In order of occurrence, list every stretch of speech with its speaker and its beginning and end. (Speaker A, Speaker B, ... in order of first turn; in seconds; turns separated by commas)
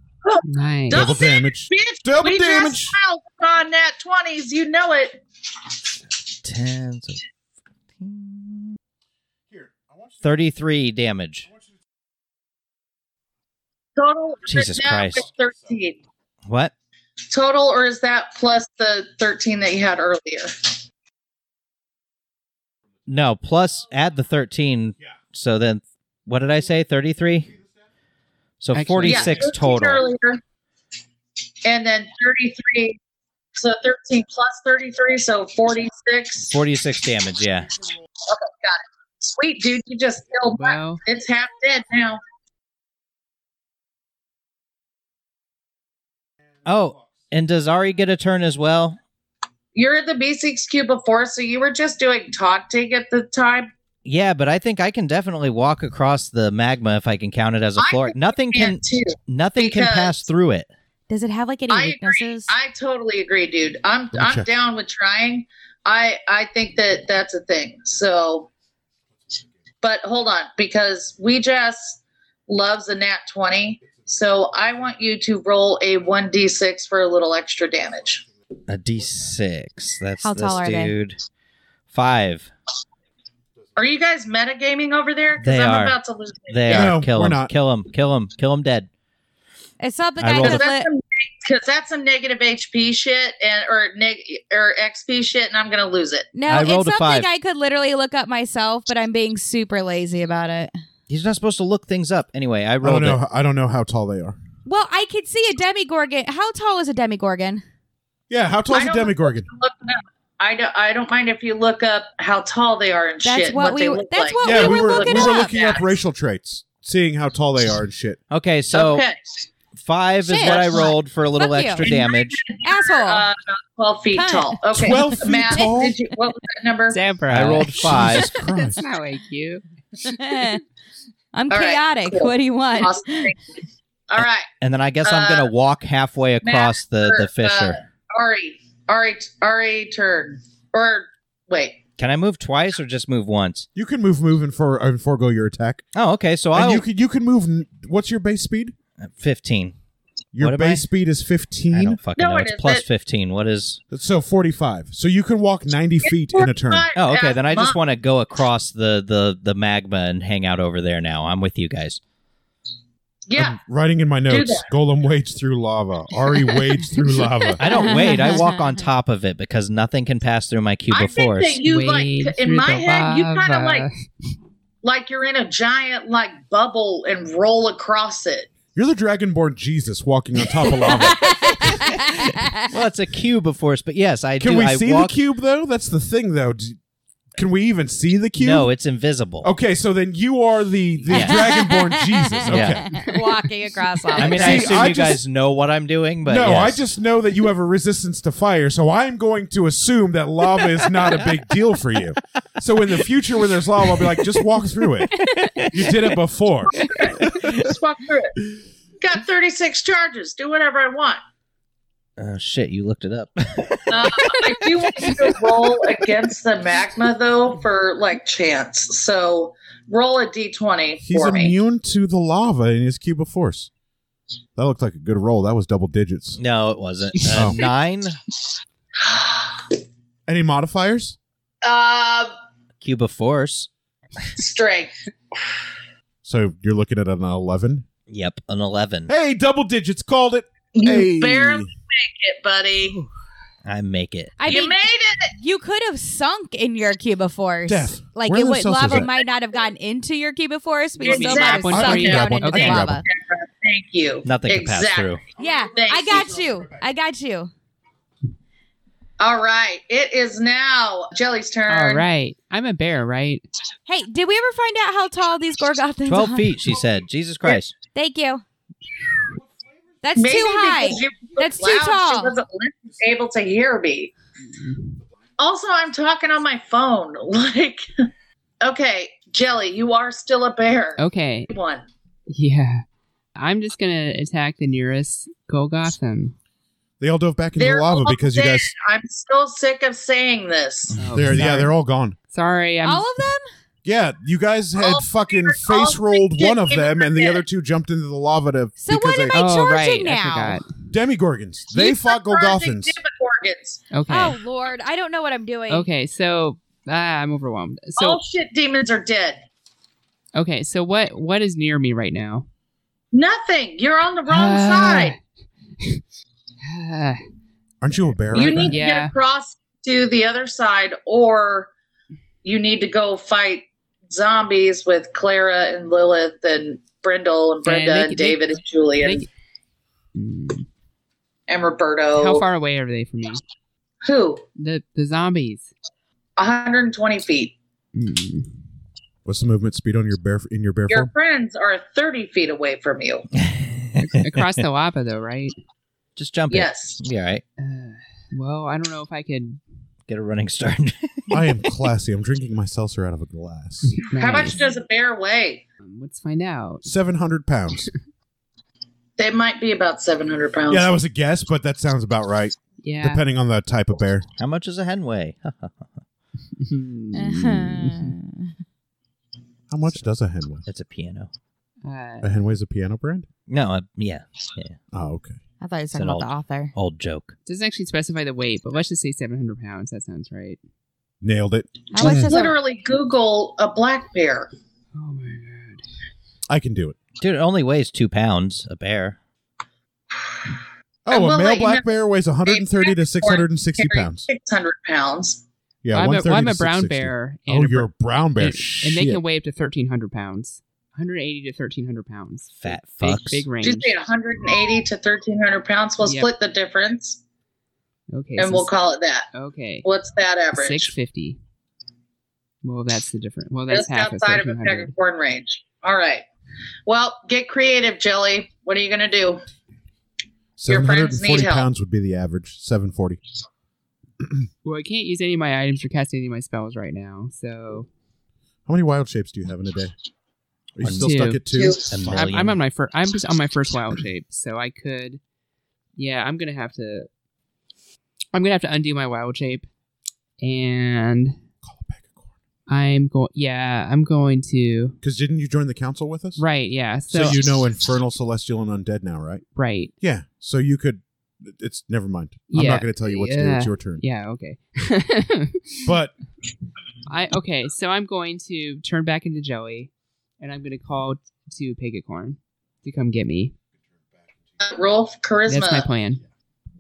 Speaker A: 0.2-5.2, Speaker B: 0.4-1.1, Speaker C: 0.9-3.0, Speaker D: 6.4-7.2, Speaker D: 8.0-8.8, Speaker C: 9.5-10.2, Speaker D: 10.2-11.5, Speaker A: 14.0-16.0, Speaker D: 14.5-15.2, Speaker D: 16.5-16.7, Speaker A: 17.3-20.6, Speaker D: 23.1-27.5, Speaker D: 28.6-30.1, Speaker B: 28.7-29.4, Speaker A: 29.1-30.4, Speaker A: 31.6-33.0, Speaker A: 33.6-36.6, Speaker D: 36.5-37.7, Speaker A: 38.2-42.2, Speaker B: 40.5-41.0, Speaker D: 46.6-49.0, Speaker A: 49.8-53.7, Speaker D: 54.0-60.7, Speaker A: 57.8-60.1, Speaker E: 61.1-62.5, Speaker A: 61.7-68.5, Speaker C: 64.1-64.5, Speaker A: 69.8-78.2, Speaker D: 78.7-81.2, Speaker E: 80.2-80.9, Speaker D: 81.9-82.5, Speaker A: 83.8-86.9, Speaker D: 85.4-86.0, Speaker D: 86.5-88.9, Speaker C: 86.7-87.5, Speaker E: 89.8-90.9, Speaker D: 90.2-90.6, Speaker A: 90.3-96.3, Speaker E: 96.3-100.7, Speaker D: 96.5-97.3, Speaker D: 101.1-103.2, Speaker C: 102.8-104.4, Speaker E: 104.7-107.6, Speaker C: 108.3-109.5, Speaker A: 108.7-115.9, Speaker E: 113.2-115.5, Speaker C: 114.4-118.2, Speaker D: 118.3-119.0, Speaker A: 118.7-119.2, Speaker D: 119.8-122.4, Speaker E: 120.2-121.9, Speaker A: 120.4-120.9, Speaker A: 121.8-127.0, Speaker E: 122.6-123.3, Speaker E: 124.1-125.7, Speaker C: 124.7-126.0, Speaker B: 126.9-130.4, Speaker D: 127.3-128.3, Speaker C: 127.8-128.8, Speaker E: 130.1-130.6, Speaker E: 131.3-133.3, Speaker A: 131.5-133.4, Speaker A: 134.1-134.5, Speaker D: 134.2-137.8, Speaker A: 135.0-135.5, Speaker A: 136.4-141.8, Speaker D: 142.0-143.7, Speaker C: 143.8-145.8, Speaker D: 145.9-146.8, Speaker C: 146.5-148.8, Speaker D: 149.0-149.8, Speaker C: 150.3-152.0, Speaker D: 150.4-150.8, Speaker D: 151.7-153.8, Speaker A: 152.2-152.8, Speaker C: 153.9-156.9, Speaker A: 156.1-157.8, Speaker D: 157.0-162.0, Speaker A: 163.3-163.6, Speaker C: 163.4-167.7, Speaker A: 164.3-164.7, Speaker D: 167.6-171.6, Speaker E: 167.7-168.8, Speaker A: 170.9-173.9, Speaker B: 171.6-174.1, Speaker A: 174.8-178.5, Speaker C: 178.8-181.6, Speaker E: 181.2-182.7, Speaker D: 181.7-185.2, Speaker C: 184.4-186.8, Speaker C: 187.3-188.7, Speaker D: 188.4-189.5, Speaker C: 189.4-192.9, Speaker D: 191.1-191.5, Speaker E: 191.2-194.8, Speaker D: 192.5-192.9, Speaker B: 192.9-193.2, Speaker D: 194.2-196.8, Speaker C: 194.2-195.2, Speaker C: 196.3-206.8, Speaker D: 200.6-201.1, Speaker D: 203.8-204.3, Speaker D: 205.1-206.1, Speaker B: 205.3-205.6, Speaker A: 206.7-208.4, Speaker A: 209.0-211.2, Speaker D: 212.2-215.7, Speaker A: 213.9-221.6, Speaker C: 221.0-223.7, Speaker C: 224.6-226.4, Speaker D: 226.4-228.2, Speaker C: 227.3-227.6, Speaker A: 229.0-229.6, Speaker C: 230.3-231.2, Speaker A: 231.6-232.3, Speaker D: 232.8-233.7, Speaker A: 234.3-235.4, Speaker C: 236.2-237.9, Speaker D: 238.1-239.1, Speaker C: 239.1-241.7, Speaker A: 240.8-243.0, Speaker D: 243.7-244.4, Speaker E: 244.4-244.8, Speaker A: 244.5-245.3, Speaker E: 245.4-253.0, Speaker C: 247.7-249.1, Speaker B: 251.0-252.8, Speaker A: 251.1-255.2, Speaker C: 251.7-253.0, Speaker D: 254.2-255.2, Speaker E: 255.4-257.5, Speaker A: 255.7-256.4, Speaker A: 259.2-262.1, Speaker B: 261.7-263.4, Speaker E: 263.9-266.6, Speaker D: 266.1-267.7, Speaker E: 267.9-268.4, Speaker E: 270.0-272.4, Speaker A: 270.2-274.1, Speaker B: 274.5-275.0, Speaker A: 275.4-277.9, Speaker A: 278.6-281.9, Speaker B: 281.0-281.5, Speaker B: 282.3-286.4, Speaker C: 287.0-288.7, Speaker A: 287.6-291.0, Speaker D: 290.9-291.4, Speaker B: 291.0-291.7, Speaker C: 291.1-292.2, Speaker B: 292.3-293.1, Speaker E: 292.8-293.5, Speaker C: 293.9-299.4, Speaker A: 294.8-297.4, Speaker E: 298.8-300.6, Speaker B: 299.3-300.7, Speaker C: 300.9-303.0, Speaker A: 301.7-303.8, Speaker B: 303.9-304.4, Speaker E: 304.1-305.9, Speaker B: 305.7-308.2, Speaker A: 308.0-309.4, Speaker B: 310.3-312.5, Speaker A: 313.1-315.1, Speaker B: 314.3-315.2, Speaker B: 316.6-317.2, Speaker C: 317.8-318.8, Speaker B: 318.3-319.1, Speaker A: 318.3-321.7, Speaker A: 322.4-329.3, Speaker B: 327.6-328.4, Speaker B: 329.0-329.3, Speaker B: 330.1-330.7, Speaker A: 331.5-332.5, Speaker B: 332.1-333.4, Speaker A: 334.0-334.4, Speaker B: 334.6-335.7, Speaker A: 336.4-337.6, Speaker B: 337.9-338.6, Speaker C: 339.3-341.1, Speaker A: 340.9-343.3, Speaker D: 343.4-344.6, Speaker B: 344.0-345.6, Speaker D: 346.2-347.4, Speaker A: 346.5-347.0, Speaker B: 347.6-349.6, Speaker D: 350.1-351.3, Speaker C: 351.3-354.0, Speaker B: 353.9-354.6, Speaker A: 354.2-355.6, Speaker B: 355.8-356.9, Speaker C: 356.8-357.9, Speaker A: 359.2-360.9, Speaker C: 360.7-364.2, Speaker B: 362.8-363.2, Speaker D: 364.4-365.9, Speaker B: 366.6-368.2, Speaker E: 367.1-368.5, Speaker C: 369.7-370.6, Speaker D: 370.7-371.3, Speaker B: 371.8-372.3, Speaker C: 372.2-373.3, Speaker D: 373.5-374.8, Speaker C: 374.9-375.4, Speaker E: 375.6-376.7, Speaker D: 375.9-377.4, Speaker B: 377.5-380.6, Speaker C: 381.2-382.3, Speaker E: 381.9-382.6, Speaker A: 382.0-384.5, Speaker B: 384.9-385.8, Speaker C: 386.5-387.0, Speaker D: 387.2-389.2, Speaker A: 390.1-390.5, Speaker C: 391.1-394.3, Speaker A: 391.1-391.9, Speaker A: 392.5-395.4, Speaker C: 395.8-399.2, Speaker B: 395.9-404.0, Speaker D: 402.6-403.4, Speaker A: 403.6-407.2, Speaker B: 406.0-406.3, Speaker B: 408.1-408.7, Speaker A: 408.4-409.3, Speaker B: 409.3-409.9, Speaker A: 409.9-410.9, Speaker B: 410.5-411.4, Speaker B: 412.6-414.9, Speaker A: 413.7-416.2, Speaker A: 416.9-419.4, Speaker C: 420.6-423.2, Speaker A: 420.7-421.7, Speaker B: 424.6-427.9, Speaker C: 428.7-429.9, Speaker C: 430.8-432.4, Speaker D: 430.8-432.6, Speaker B: 431.0-435.2, Speaker A: 431.5-431.9, Speaker B: 436.0-437.1, Speaker B: 438.3-439.7, Speaker B: 440.4-441.4, Speaker C: 441.6-442.3, Speaker B: 442.7-445.0, Speaker C: 445.0-446.4, Speaker B: 446.4-447.5, Speaker C: 447.1-449.4, Speaker B: 449.6-449.9, Speaker C: 450.0-454.0, Speaker B: 452.5-455.9, Speaker C: 455.9-456.1, Speaker B: 457.1-463.6, Speaker A: 464.6-465.9, Speaker B: 465.5-466.2